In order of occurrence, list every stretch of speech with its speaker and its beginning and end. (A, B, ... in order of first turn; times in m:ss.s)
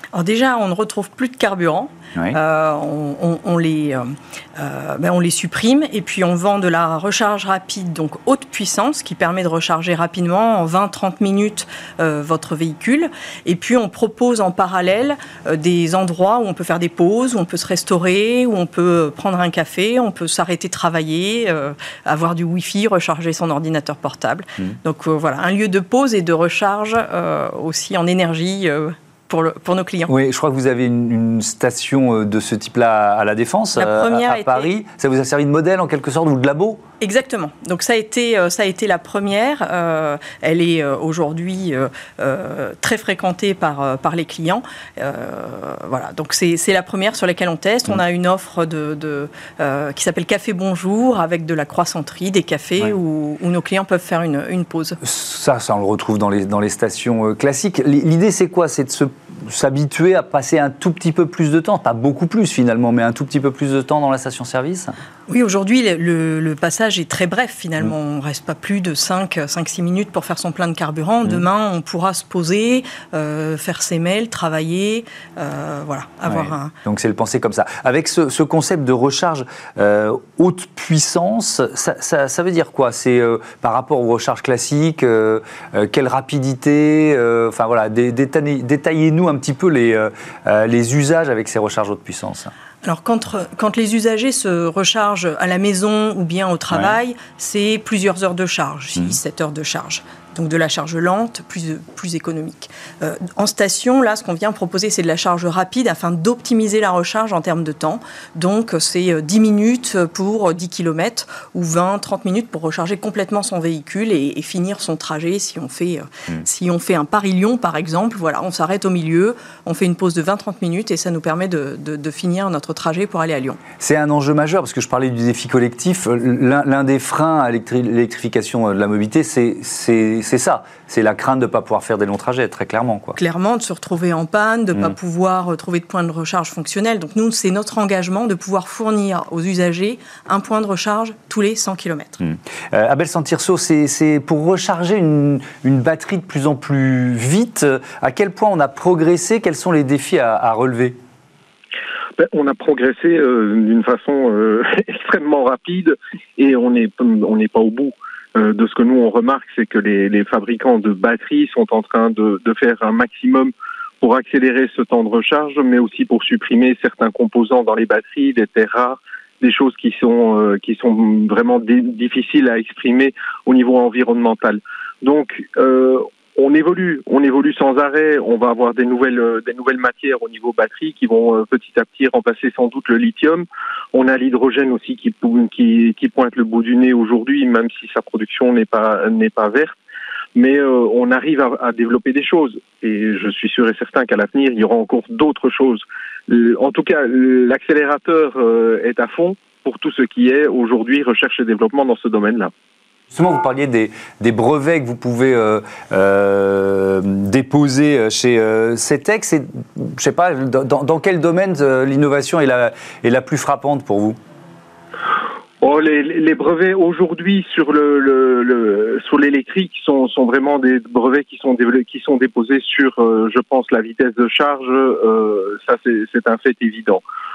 0:00.1-0:30.1 A
0:30.1-0:36.8 B
0:33.8-0:34.7 A
0:37.0-0:55.0 A
0:55.0-1:04.9 B
1:05.3-1:16.7 A
1:16.3-1:32.5 B
1:32.8-2:03.6 A
2:03.8-2:13.2 B
2:13.2-2:22.2 A
2:22.2-2:31.0 B
2:32.2-3:09.8 C
3:10.3-3:22.5 C
3:23.1-3:34.2 B
3:35.6-3:47.0 C